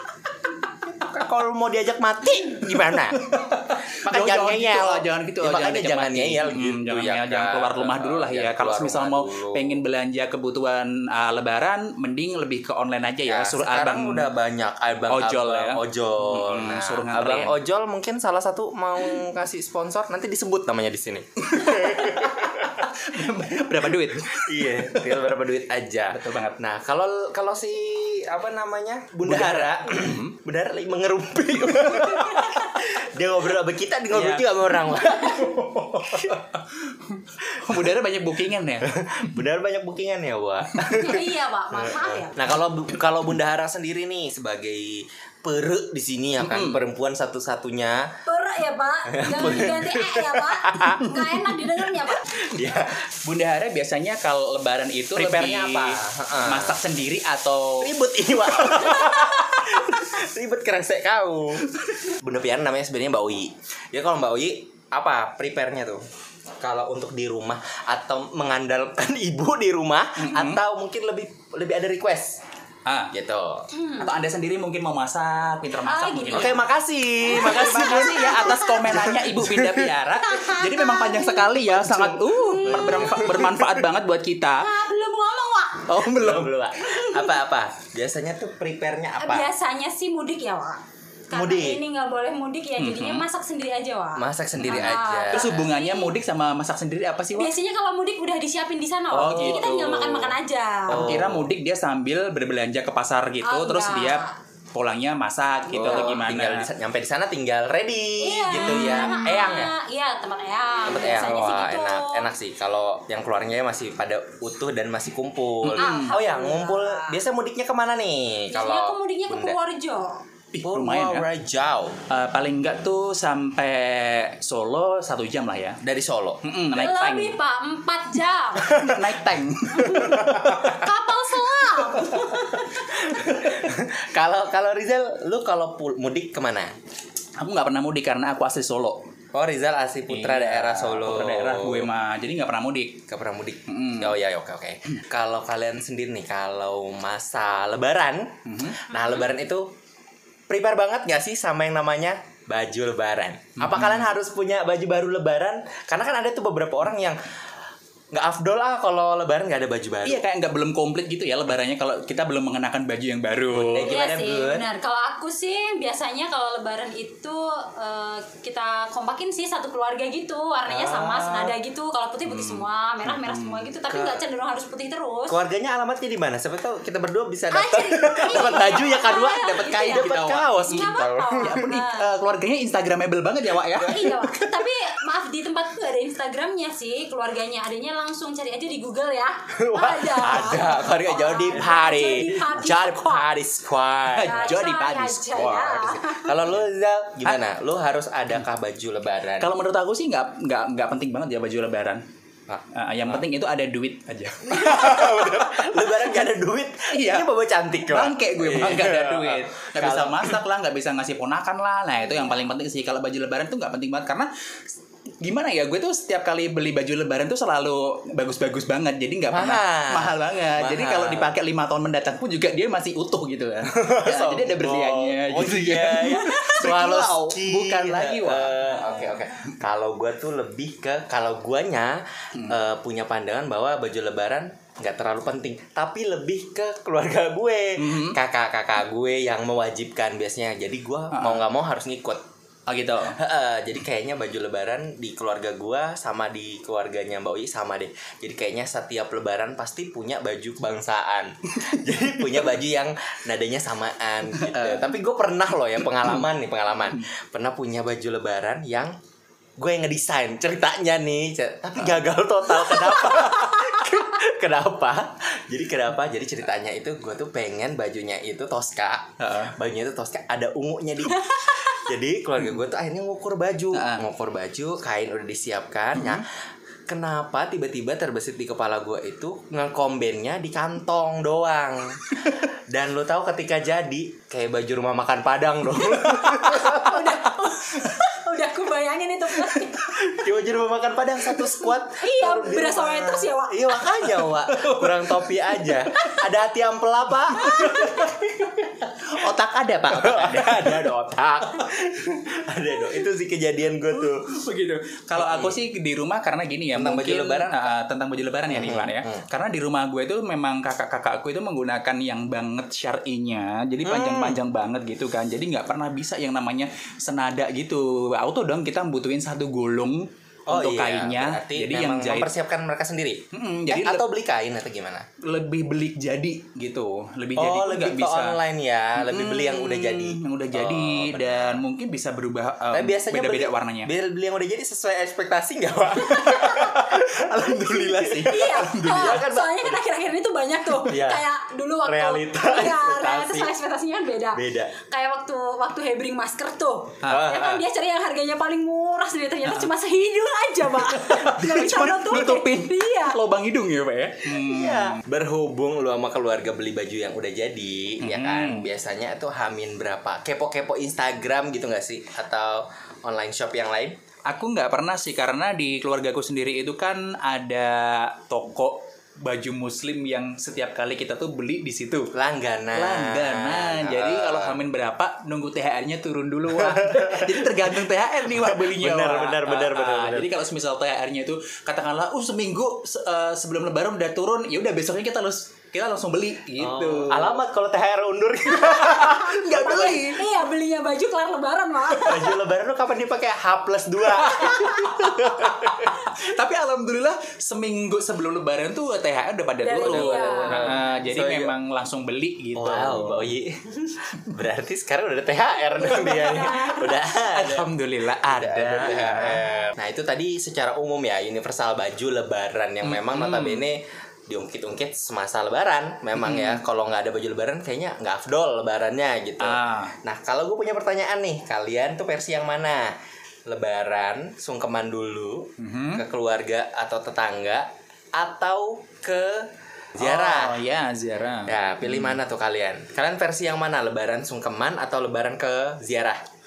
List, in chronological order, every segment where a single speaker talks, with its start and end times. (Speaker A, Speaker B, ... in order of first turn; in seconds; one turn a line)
Speaker A: 1.0-3.2
Speaker B: 2.9-14.3
Speaker A: 4.0-9.8
Speaker A: 13.2-22.1
Speaker B: 15.1-17.6
Speaker B: 21.4-25.2
Speaker A: 24.3-35.5
Speaker B: 26.1-26.6
Speaker B: 29.2-30.3
Speaker B: 31.6-32.3
Speaker C: 32.1-32.6
Speaker B: 34.1-38.9
Speaker A: 38.8-48.0
Speaker C: 40.9-42.4
Speaker B: 46.4-46.8
Speaker C: 48.2-52.3
Speaker A: 49.1-51.0
Speaker A: 52.2-53.1
Speaker B: 53.2-57.9
Speaker A: 55.1-56.8
Speaker A: 57.8-66.0
Speaker B: 58.6-58.9
Speaker A: 66.6-72.4
Speaker B: 70.2-70.6
Speaker B: 72.8-73.1
Speaker A: 73.1-73.7
Speaker C: 73.7-74.1
Speaker B: 74.0-76.6
Speaker C: 75.8-76.6
Speaker A: 76.3-79.9
Speaker B: 77.2-84.7
Speaker C: 77.3-78.7
Speaker C: 80.2-81.6
Speaker A: 81.8-83.8
Speaker C: 82.2-83.2
Speaker C: 84.6-85.9
Speaker B: 85.9-86.5
Speaker A: 86.1-89.5
Speaker C: 87.0-87.3
Speaker C: 89.2-96.2
Speaker A: 91.3-91.8
Speaker B: 92.8-93.2
Speaker A: 94.2-95.7
Speaker B: 94.6-97.5
Speaker C: 97.3-101.2
Speaker B: 99.1-106.7
Speaker A: 99.3-99.6
Speaker A: 100.9-101.5
Speaker C: 103.4-104.3
Speaker A: 105.7-109.7
Speaker C: 108.2-112.3
Speaker B: 108.5-109.3
Speaker A: 110.8-119.5
Speaker B: 115.6-116.2
Speaker C: 115.8-117.2
Speaker C: 118.5-120.2
Speaker B: 120.5-121.3
Speaker A: 120.6-122.0
Speaker B: 122.1-125.8
Speaker A: 125.8-126.4
Speaker B: 126.4-127.4
Speaker C: 126.7-128.8
Speaker A: 128.6-129.2
Speaker B: 128.6-130.2
Speaker C: 129.7-132.7
Speaker A: 129.9-130.8
Speaker A: 131.9-136.7
Speaker B: 137.4-139.0
Speaker A: 139.3-141.9
Speaker B: 140.1-143.0
Speaker A: 143.1-149.7
Speaker B: 143.7-144.2
Speaker B: 148.5-148.8
Speaker A: 150.5-157.2
Speaker B: 153.6-154.1
Speaker A: 158.1-160.2
Speaker B: 160.0-163.9
Speaker A: 163.5-164.7
Speaker C: 163.8-175.4
Speaker A: 170.7-171.6
Speaker B: 172.2-173.7
Speaker A: 173.9-174.2
Speaker A: 175.3-181.6
Speaker C: 177.5-180.1
Speaker B: 179.8-184.2
Speaker C: 180.6-182.1
Speaker C: 183.8-193.3
Speaker A: 189.6-194.6
Speaker B: 194.1-195.8
Speaker C: 194.2-196.4
Speaker A: 195.6-199.5
Speaker B: 199.4-202.0
Speaker A: 202.5-203.2
Speaker B: 202.7-205.8
Speaker A: 204.4-210.4
Speaker B: 206.9-207.3
Speaker B: 207.8-214.3
Speaker B: 215.2-229.2
Speaker A: 219.3-221.3
Speaker A: 223.7-242.2
Speaker B: 237.8-238.2
Speaker B: 241.1-241.4
Speaker B: 242.7-243.2
Speaker A: 243.0-258.9
Speaker B: 254.3-254.9
Speaker A: 259.6-276.3
Speaker B: 269.2-269.5
Speaker C: 271.1-271.8
Speaker B: 273.7-274.0
Speaker B: 275.9-276.2
Speaker A: 276.9-287.1
Speaker C: 286.2-289.9
Speaker A: 289.8-298.4
Speaker C: 291.9-293.7
Speaker B: 294.0-296.1
Speaker B: 297.4-300.9
Speaker C: 297.4-298.1
Speaker A: 299.9-304.3
Speaker B: 303.9-322.3
Speaker A: 305.2-305.6
Speaker A: 306.7-307.6
Speaker A: 308.5-309.2
Speaker A: 313.8-314.4
Speaker A: 320.5-325.1
Speaker B: 323.3-324.0
Speaker B: 325.2-328.4
Speaker A: 327.4-331.6
Speaker B: 328.9-333.9
Speaker A: 332.7-339.8
Speaker C: 336.0-336.5
Speaker B: 336.3-339.2
Speaker C: 338.2-353.2
Speaker A: 340.8-341.2
Speaker A: 341.8-343.5
Speaker A: 344.3-344.7
Speaker B: 347.0-347.3
Speaker A: 347.1-347.6
Speaker B: 350.7-355.0
Speaker A: 354.3-363.9
Speaker B: 358.0-358.7
Speaker B: 364.3-372.1
Speaker A: 372.1-374.6
Speaker B: 372.7-387.4
Speaker A: 376.5-377.7
Speaker A: 378.3-380.3
Speaker A: 386.6-390.1
Speaker B: 388.6-390.2
Speaker C: 389.5-392.4
Speaker A: 392.0-396.0
Speaker B: 394.2-403.3
Speaker C: 399.6-400.8
Speaker A: 399.8-401.5
Speaker A: 402.5-407.7
Speaker B: 405.9-409.5
Speaker C: 406.2-406.9
Speaker A: 408.2-422.9
Speaker B: 412.8-413.7
Speaker B: 416.2-416.6
Speaker B: 419.4-419.9
Speaker A: 423.5-430.6
Speaker B: 425.6-426.0
Speaker B: 430.0-432.2
Speaker A: 431.4-436.2